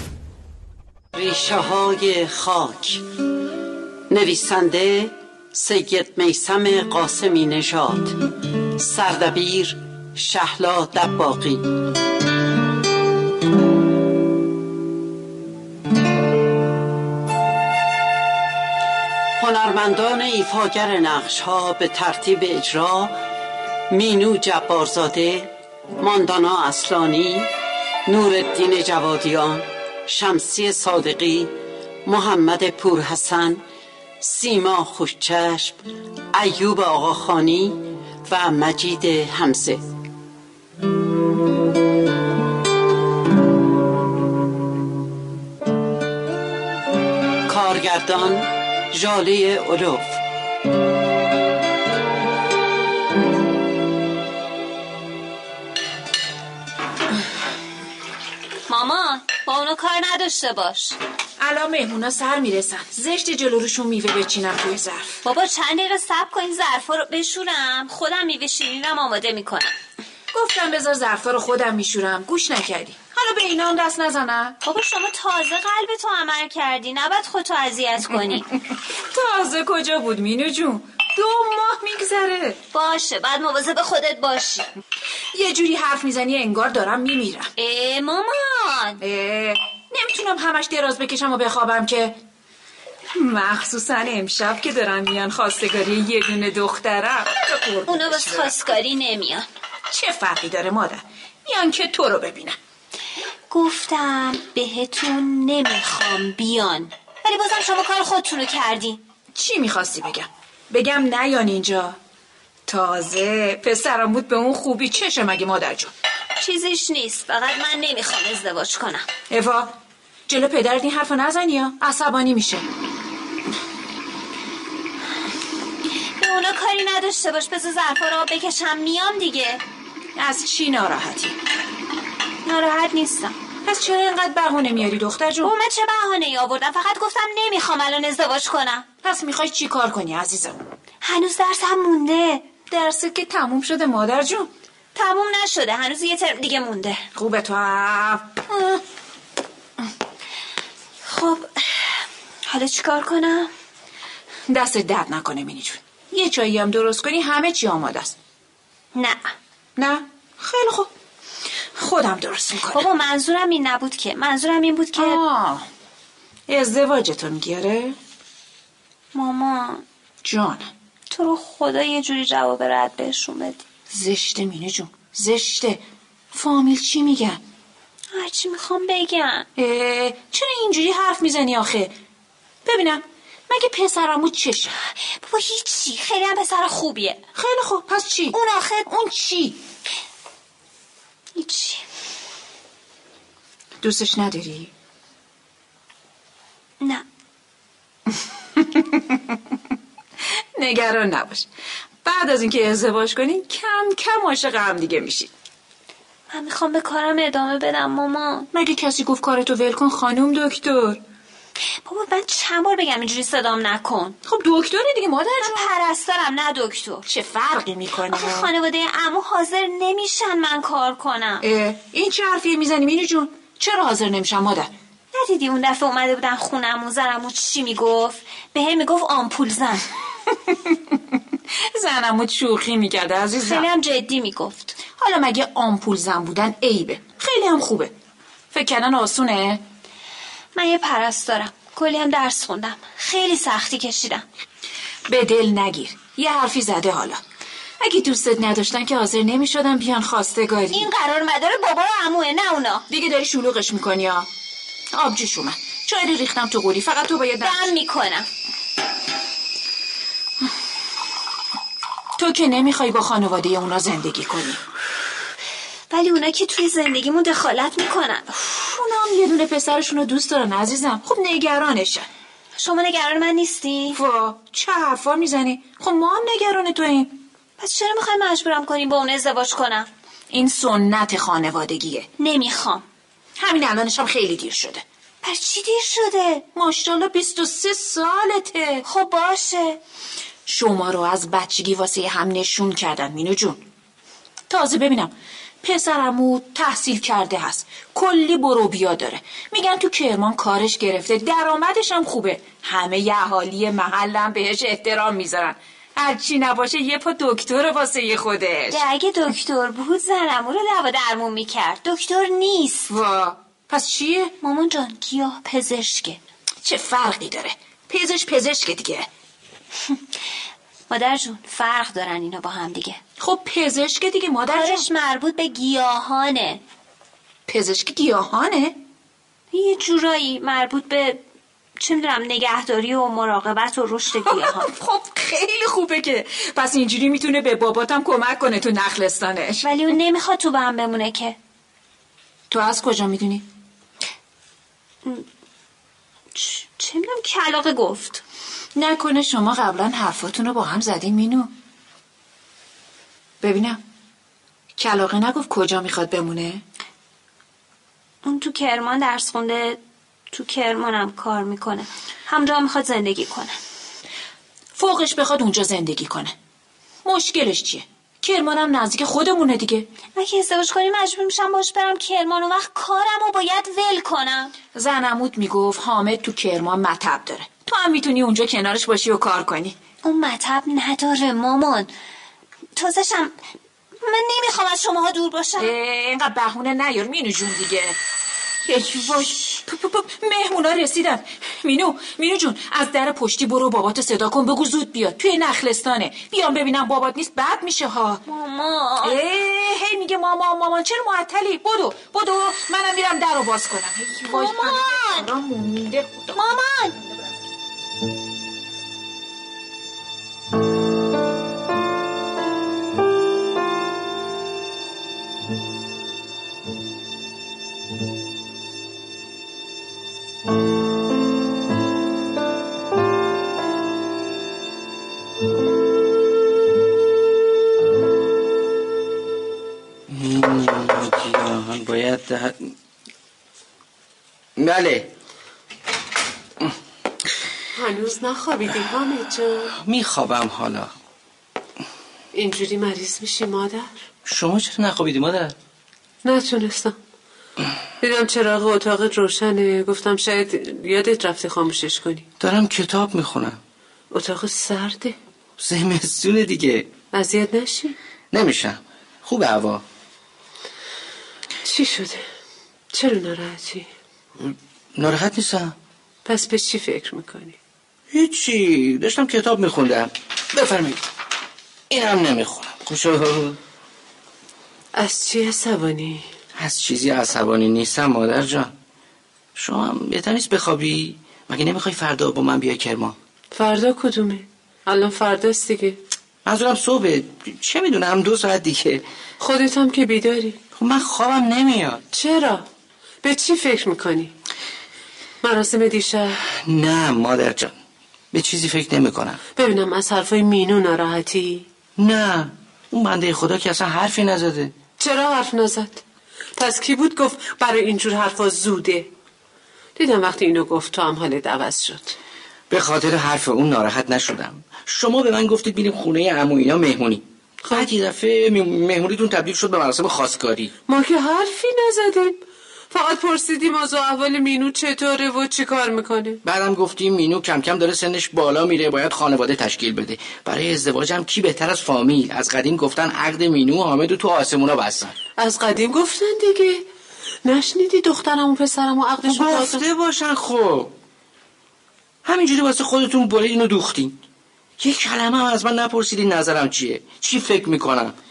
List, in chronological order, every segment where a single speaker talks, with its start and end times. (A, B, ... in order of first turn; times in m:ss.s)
0:01.2-0:03.0 A
0:04.1-0:08.2 A
0:08.8-0:11.7 A
0:19.4-0:23.2 A
0:23.9-0:27.5 A
0:28.1-0:33.6 A
0:34.2-0:35.8 A
0:36.3-0:39.8 A
0:47.5-0:50.2 A
0:58.7-1:01.0 B
1:01.4-1:05.2 C
1:05.2-1:09.7 B
1:10.3-1:14.6 C
1:14.6-1:18.5 B
1:19.1-1:22.6 C
1:22.7-1:24.7 B
1:25.3-1:27.5 C
1:27.6-1:29.0 B
1:29.0-1:32.2 C
1:33.2-1:38.6 C
1:37.9-1:39.5 B
1:39.9-1:42.6 C
1:43.5-1:49.0 B
1:49.4-1:52.0 C
1:52.7-1:55.9 C
1:56.4-1:59.1 B
1:59.3-1:59.7 C
2:00.3-2:02.7 C
2:06.2-2:09.6 B
2:10.2-2:11.4 C
2:12.4-2:13.4 B
2:13.6-2:15.5 C
2:15.4-2:18.9 B
2:19.0-2:20.5 C
2:21.0-2:22.5 B
2:22.7-2:24.5 C
2:25.0-2:27.0 B
2:27.2-2:28.8 C
2:31.1-2:33.5 B
2:34.5-2:38.2 C
2:39.0-2:39.3 B
2:39.8-2:40.9 C
2:41.8-2:42.8 C
2:42.7-2:45.2 B
2:45.0-2:45.7 C
2:46.5-2:48.0 C
2:49.1-2:49.8 B
2:50.2-2:50.7 C
2:51.1-2:53.6 B
2:53.9-2:57.4 C
2:58.1-2:59.5 B
2:59.6-3:01.9 C
3:02.6-3:04.8 C
3:05.1-3:07.2 B
3:07.4-3:09.6 C
3:11.4-3:11.8 B
3:13.8-3:14.7 C
3:18.6-3:19.2 C
3:20.6-3:21.5 C
3:22.0-3:25.3 C
3:26.3-3:28.5 B
3:28.5-3:31.0 C
3:31.8-3:34.2 B
3:34.2-3:35.7 C
3:35.4-3:37.0 B
3:37.1-3:38.5 C
3:38.1-3:41.4 B
3:41.4-3:44.7 C
3:45.1-3:49.9 B
3:51.7-3:53.7 C
3:53.4-3:54.8 B
3:55.0-3:57.9 C
3:58.5-3:59.6 C
4:00.6-4:04.2 B
4:05.1-4:07.2 C
4:07.8-4:10.9 C
4:10.7-4:12.8 B
4:12.9-4:14.3 C
4:14.9-4:17.7 C
4:17.4-4:18.3 B
4:22.2-4:24.6 C
4:25.9-4:28.4 B
4:28.5-4:32.1 C
4:32.6-4:34.0 B
4:33.9-4:37.2 C
4:37.6-4:39.9 B
4:40.3-4:42.1 C
4:42.2-4:42.8 B
4:43.4-4:44.8 C
4:45.2-4:46.4 B
4:46.6-4:48.8 C
4:48.8-4:49.8 B
4:50.5-4:53.6 C
4:54.5-5:08.8 C
5:08.7-5:12.9 B
5:12.9-5:14.3 C
5:14.4-5:16.2 B
5:16.6-5:19.1 C
5:20.9-5:23.0 B
5:23.2-5:24.9 C
5:24.5-5:26.6 B
5:27.5-5:28.8 C
5:29.5-5:31.2 B
5:31.8-5:34.7 B
5:34.3-5:39.7 C
5:39.6-5:41.4 B
5:42.5-5:43.4 C
5:46.3-5:48.2 B
5:48.8-5:51.5 C
5:53.4-5:53.8 C
5:54.8-5:56.6 C
5:58.2-5:59.8 B
6:00.3-6:03.6 B
6:04.8-6:06.3 C
6:07.0-6:09.9 C
6:10.2-6:14.5 B
6:14.8-6:19.8 C
6:20.0-6:21.9 B
6:22.8-6:23.4 B
6:24.0-6:25.7 B
6:25.6-6:28.0 C
6:28.7-6:38.2 C
6:38.3-6:39.2 B
6:39.0-6:46.4 C
6:44.3-6:45.3 B
6:46.3-6:47.0 B
7:10.1-7:12.7 D
7:14.6-7:15.1 D
7:17.7-7:19.7 E
7:19.7-7:20.9 D
7:22.3-7:23.9 E
7:24.3-7:25.5 D
7:26.2-7:27.0 E
7:28.0-7:32.3 E
7:32.4-7:33.6 D
7:34.1-7:35.2 E
7:35.6-7:36.9 D
7:37.1-7:38.0 E
7:38.3-7:39.8 D
7:41.6-7:42.2 E
7:42.9-7:43.9 E
7:44.4-7:45.7 D
7:46.3-7:47.6 E
7:48.1-7:51.0 D
7:51.9-7:53.6 D
7:55.0-7:56.2 E
7:56.6-7:58.7 D
7:59.6-8:03.2 D
8:03.5-8:06.0 E
8:06.4-8:09.0 D
8:09.4-8:10.6 E
8:10.8-8:12.0 D
8:12.1-8:12.7 E
8:13.2-8:14.3 E
8:15.4-8:16.4 E
8:16.5-8:17.7 D
8:18.3-8:19.4 D
8:19.6-8:21.7 E
8:22.0-8:24.7 D
8:25.0-8:26.0 E
8:26.6-8:29.1 E
8:30.0-8:32.2 E
8:32.7-8:40.7 D
8:40.9-8:42.4 E
8:42.9-8:46.4 E
8:46.4-8:55.2 D
8:55.4-8:56.8 E
8:57.4-8:59.9 E
8:59.2-9:00.9 D
9:02.2-9:04.2 D
9:04.8-9:08.2 D